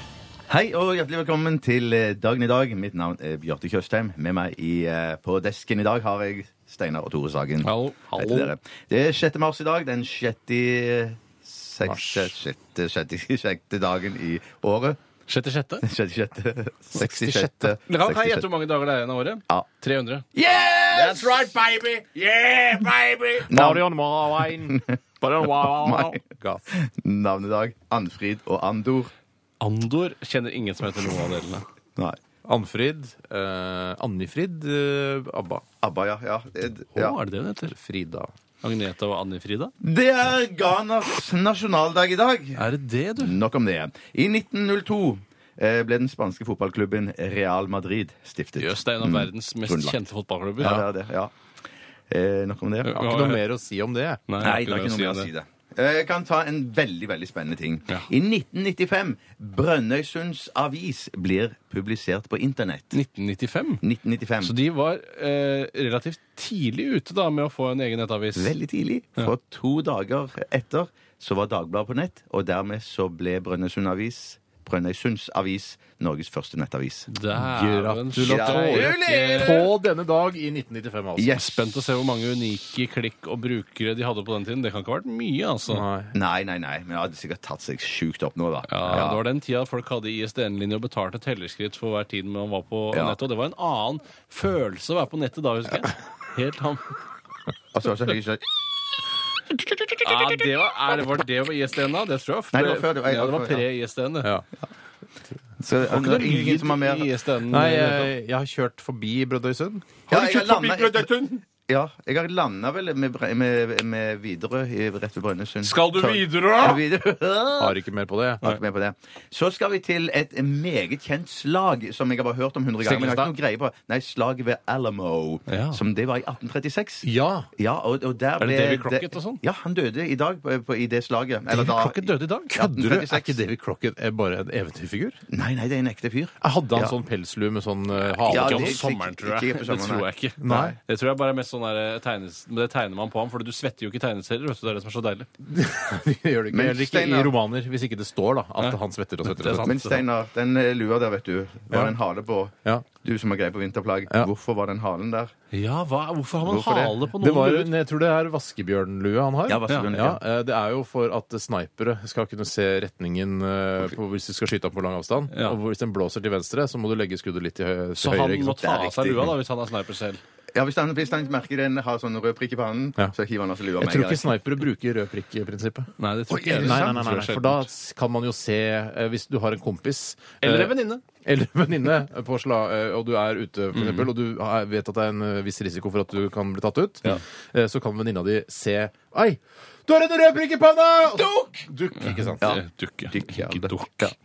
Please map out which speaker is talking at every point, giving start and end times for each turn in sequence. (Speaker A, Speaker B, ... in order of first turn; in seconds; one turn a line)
Speaker A: 0.5-15.0
Speaker B: 7.6-8.5
Speaker C: 11.8-12.3
Speaker B: 15.3-15.9
Speaker A: 15.8-18.5
Speaker C: 16.9-17.8
Speaker B: 17.9-20.2
Speaker A: 20.4-21.3
Speaker C: 20.9-24.8
Speaker A: 23.5-23.9
Speaker A: 24.6-25.0
Speaker B: 25.2-26.2
Speaker C: 25.4-26.7
Speaker A: 25.6-26.2
Speaker A: 26.7-29.1
Speaker B: 29.6-31.6
Speaker C: 32.5-35.6
Speaker A: 35.8-37.2
Speaker B: 37.0-37.8
Speaker C: 37.7-38.3
Speaker B: 38.6-39.8
Speaker A: 39.8-42.6
Speaker B: 42.6-43.4
Speaker A: 43.2-50.0
Speaker B: 48.6-50.9
Speaker A: 50.6-51.3
Speaker A: 52.1-53.0
Speaker B: 52.8-53.5
Speaker C: 52.9-54.2
Speaker B: 54.3-55.3
Speaker A: 54.4-63.0
Speaker B: 62.9-63.8
Speaker A: 63.8-64.5
Speaker B: 64.4-68.5
Speaker A: 68.3-77.1
Speaker B: 77.1-79.7
Speaker C: 77.3-81.4
Speaker A: 78.2-79.7
Speaker A: 81.2-81.5
Speaker B: 81.3-85.9
Speaker C: 85.7-86.1
Speaker A: 86.1-89.2
Speaker B: 88.7-96.9
Speaker A: 92.9-93.2
Speaker A: 97.7-98.4
Speaker B: 100.0-104.4
Speaker A: 102.5-103.6
Speaker A: 105.6-107.1
Speaker B: 105.8-108.1
Speaker C: 107.5-110.1
Speaker A: 110.1-111.1
Speaker B: 110.1-111.4
Speaker A: 111.7-117.8
Speaker B: 115.6-116.8
Speaker C: 117.6-118.4
Speaker A: 118.4-127.1
Speaker B: 122.8-123.3
Speaker B: 125.5-125.8
Speaker C: 127.0-127.5
Speaker A: 127.6-133.4
Speaker B: 128.4-129.4
Speaker B: 131.5-132.6
Speaker C: 132.5-135.2
Speaker A: 135.3-136.9
Speaker C: 136.4-138.9
Speaker B: 138.1-145.3
Speaker A: 138.3-140.7
Speaker C: 140.4-140.8
Speaker C: 145.4-149.8
Speaker A: 146.5-147.3
Speaker B: 148.6-150.0
Speaker A: 149.6-155.3
Speaker C: 151.7-152.0
Speaker B: 155.5-157.7
Speaker A: 156.4-156.9
Speaker C: 157.1-168.6
Speaker A: 159.5-160.2
Speaker B: 165.3-165.6
Speaker B: 168.0-170.2
Speaker A: 168.6-169.3
Speaker A: 170.5-174.3
Speaker C: 173.8-192.6
Speaker B: 176.0-177.7
Speaker B: 180.4-181.0
Speaker B: 183.7-184.1
Speaker A: 191.1-191.7
Speaker B: 192.0-194.1
Speaker A: 192.4-194.1